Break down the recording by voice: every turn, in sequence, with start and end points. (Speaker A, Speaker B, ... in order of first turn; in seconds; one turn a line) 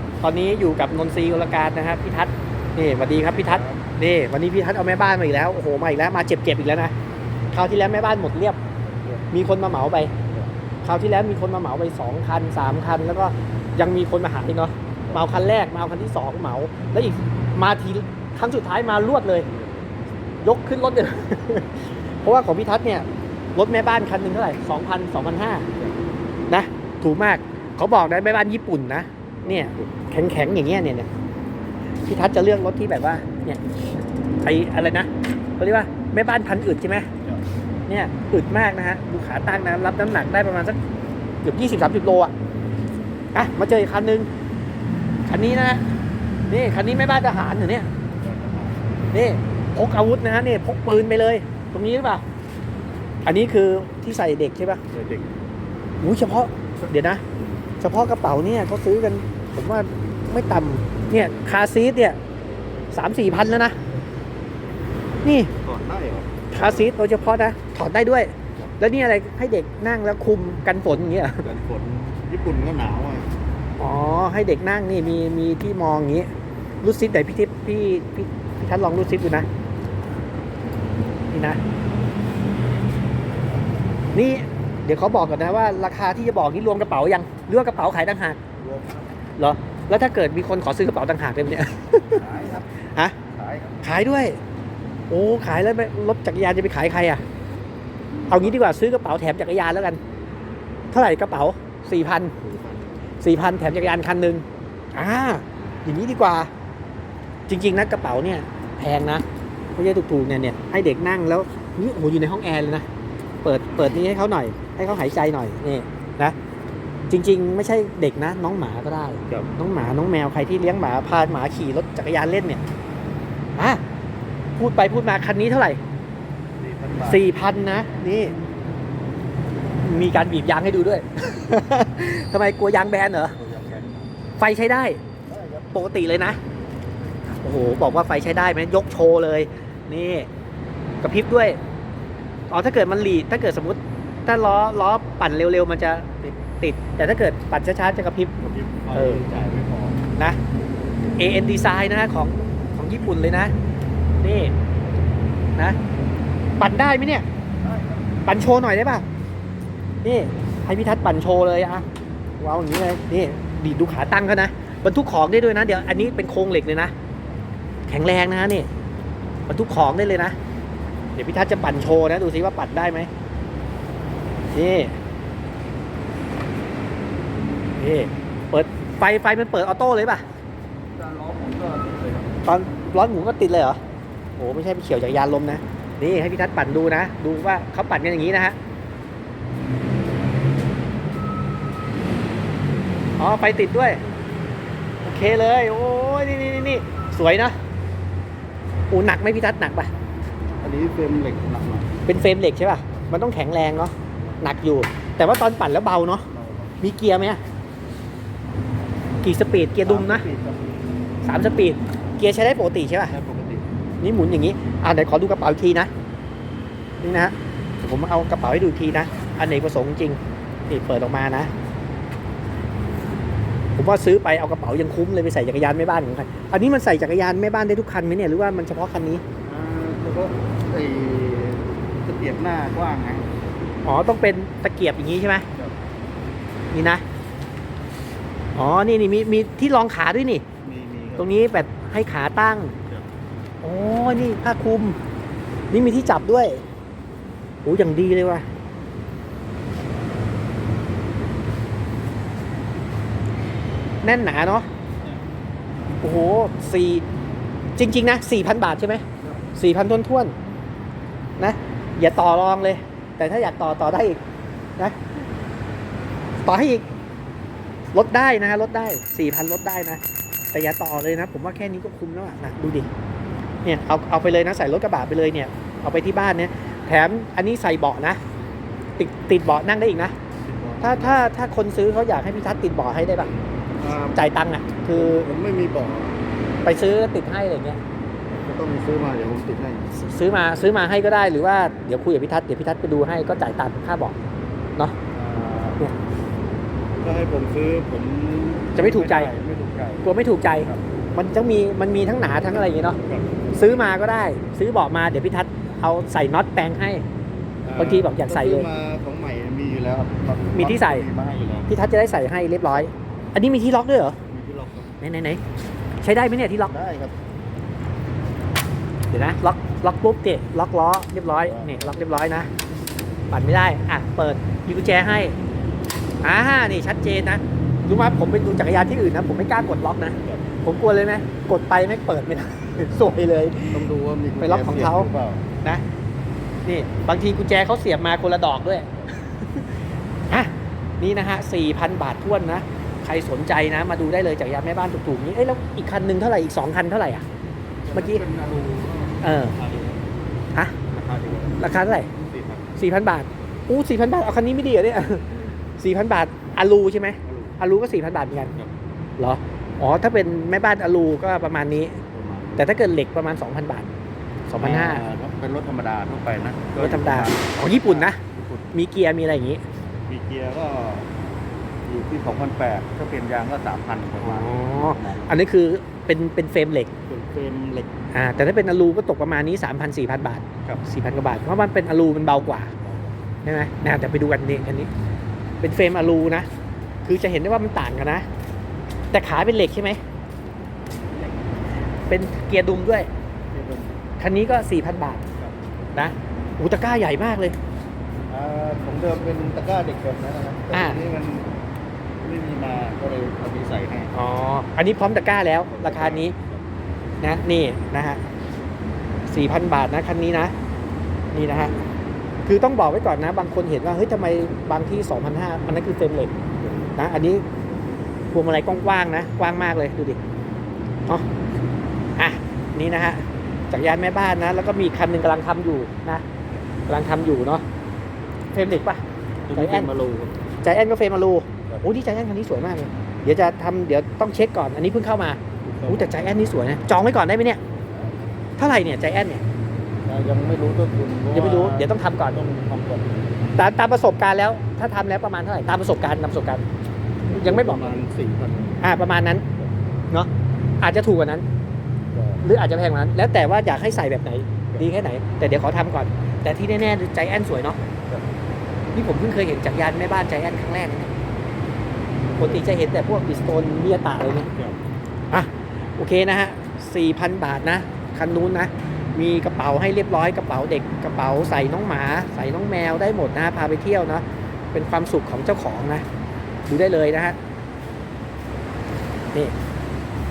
Speaker A: 0.2-6.9
Speaker B: 3.2-3.9
Speaker A: 7.5-8.6
Speaker A: 9.3-10.1
Speaker A: 10.8-19.5
Speaker B: 19.5-20.0
Speaker A: 20.4-25.7
Speaker A: 26.5-31.1
Speaker B: 29.4-29.9
Speaker A: 32.1-33.6
Speaker A: 34.4-37.1
Speaker A: 37.9-40.8
Speaker A: 41.4-42.3
Speaker A: 43.3-44.3
Speaker A: 45.3-45.8
Speaker A: 46.5-47.9
Speaker B: 48.1-48.9
Speaker A: 49.1-52.2
Speaker A: 53.2-54.8
Speaker B: 54.9-55.3
Speaker A: 56.0-57.2
Speaker B: 57.3-57.6
Speaker A: 57.8-62.2
Speaker A: 62.9-63.8
Speaker A: 65.2-65.5
Speaker B: 65.6-66.9
Speaker A: 66.5-71.4
Speaker B: 71.4-73.3
Speaker A: 73.8-76.3
Speaker A: 76.8-79.5
Speaker A: 81.3-81.6
Speaker A: 84.1-88.4
Speaker B: 88.6-89.1
Speaker A: 89.4-92.2
Speaker B: 92.0-92.7
Speaker B: 93.2-93.9
Speaker A: 93.8-94.4
Speaker A: 95.1-97.2
Speaker B: 98.2-98.6
Speaker A: 98.3-100.0
Speaker A: 100.9-102.3
Speaker B: 102.3-102.9
Speaker A: 103.2-106.5
Speaker A: 107.5-112.9
Speaker A: 113.4-116.3
Speaker A: 117.1-122.6
Speaker A: 123.6-123.8
Speaker A: 124.6-125.8
Speaker B: 126.6-127.3
Speaker A: 127.0-128.3
Speaker A: 129.8-133.4
Speaker B: 133.3-134.0
Speaker A: 134.4-135.0
Speaker B: 135.2-135.8
Speaker A: 135.7-136.4
Speaker A: 137.4-140.3
Speaker A: 141.0-141.6
Speaker A: 142.5-148.3
Speaker B: 148.4-150.0
Speaker A: 148.9-149.2
Speaker A: 151.2-153.5
Speaker A: 154.2-154.5
Speaker A: 156.6-157.2
Speaker B: 157.6-158.1
Speaker A: 158.2-159.0
Speaker A: 160.0-161.8
Speaker A: 162.4-166.9
Speaker A: 167.9-168.7
Speaker A: 169.5-170.3
Speaker A: 171.1-173.1
Speaker A: 174.5-174.9
Speaker A: 177.8-180.2
Speaker B: 180.9-182.3
Speaker A: 182.4-183.8
Speaker A: 184.4-188.6
Speaker A: 193.2-194.0
Speaker A: 195.0-197.6
Speaker A: 198.9-199.9
Speaker B: 200.6-202.0
Speaker A: 202.1-206.3
Speaker B: 206.3-206.8
Speaker A: 206.8-207.4
Speaker A: 209.2-210.2
Speaker B: 209.7-210.7
Speaker A: 211.2-213.1
Speaker B: 213.1-213.7
Speaker A: 214.0-215.9
Speaker A: 217.0-220.2
Speaker A: 220.7-221.5
Speaker A: 223.8-229.2
Speaker B: 229.4-233.5
Speaker A: 233.8-235.5
Speaker A: 236.7-237.0
Speaker A: 238.6-240.4
Speaker B: 240.6-241.4
Speaker A: 241.2-242.8
Speaker A: 243.6-245.0
Speaker A: 245.7-246.6
Speaker A: 247.6-248.4
Speaker A: 254.0-254.7
Speaker A: 256.0-257.0
Speaker A: 257.8-260.3
Speaker A: 261.4-264.2
Speaker A: 266.4-266.9
Speaker A: 267.9-270.0
Speaker A: 270.5-272.9
Speaker A: 273.6-278.2
Speaker A: 279.0-280.1
Speaker B: 280.4-281.3
Speaker A: 280.8-283.3
Speaker B: 283.8-284.2
Speaker A: 284.1-285.3
Speaker B: 284.9-286.2
Speaker A: 286.6-287.8
Speaker B: 288.4-289.9
Speaker A: 289.9-294.1
Speaker B: 295.1-295.8
Speaker B: 297.0-300.8
Speaker A: 298.8-299.3
Speaker A: 300.0-303.0
Speaker B: 303.0-303.9
Speaker A: 303.5-307.0
Speaker B: 307.6-311.7
Speaker A: 307.8-308.7
Speaker A: 310.6-311.0
Speaker A: 311.7-314.2
Speaker B: 314.3-314.9
Speaker A: 315.0-315.4
Speaker A: 316.0-316.7
Speaker B: 316.6-317.2
Speaker A: 319.1-322.5
Speaker B: 321.4-321.9
Speaker A: 323.3-325.4
Speaker A: 326.2-333.9
Speaker B: 330.2-330.4
Speaker B: 333.7-335.4
Speaker A: 334.4-335.1
Speaker A: 336.6-339.6
Speaker A: 340.3-347.2
Speaker B: 347.9-350.0
Speaker A: 347.9-348.2
Speaker A: 349.2-349.5
Speaker B: 350.9-352.7
Speaker A: 351.6-352.1
Speaker A: 352.8-358.6
Speaker B: 357.2-357.6
Speaker A: 359.2-362.0
Speaker B: 362.1-362.7
Speaker A: 362.6-363.9
Speaker A: 364.5-365.0
Speaker B: 364.6-368.7
Speaker A: 366.8-368.2
Speaker A: 368.7-369.6
Speaker B: 370.1-371.1
Speaker B: 371.8-375.3
Speaker A: 374.2-376.9
Speaker B: 377.1-377.9
Speaker A: 378.1-382.7
Speaker B: 382.8-383.1
Speaker A: 383.4-384.9
Speaker A: 385.6-386.5
Speaker A: 387.0-388.2
Speaker A: 389.1-390.0
Speaker A: 392.1-393.1
Speaker B: 393.5-393.9
Speaker A: 394.2-395.2
Speaker A: 395.9-397.6
Speaker B: 398.3-401.5
Speaker A: 400.7-401.0
Speaker B: 402.2-404.1
Speaker A: 404.1-406.4
Speaker B: 405.6-406.6
Speaker A: 407.2-408.2
Speaker A: 409.3-410.5
Speaker A: 411.3-411.7
Speaker A: 412.4-416.3
Speaker A: 416.9-417.4
Speaker A: 418.3-420.2
Speaker A: 422.2-426.2
Speaker A: 426.9-427.6
Speaker A: 428.5-429.0
Speaker B: 429.5-430.4
Speaker A: 429.5-429.9
Speaker A: 430.6-437.6
Speaker B: 435.6-436.4
Speaker A: 438.6-439.4
Speaker B: 440.0-443.2
Speaker A: 441.3-442.4
Speaker A: 443.6-446.6
Speaker B: 447.3-448.9
Speaker A: 447.3-448.0
Speaker A: 448.8-449.4
Speaker A: 450.8-451.4
Speaker B: 452.1-452.4
Speaker A: 452.4-457.8
Speaker B: 457.9-458.2
Speaker A: 458.9-461.1
Speaker A: 462.4-464.5
Speaker B: 464.5-464.8
Speaker A: 465.3-476.0
Speaker A: 476.7-477.4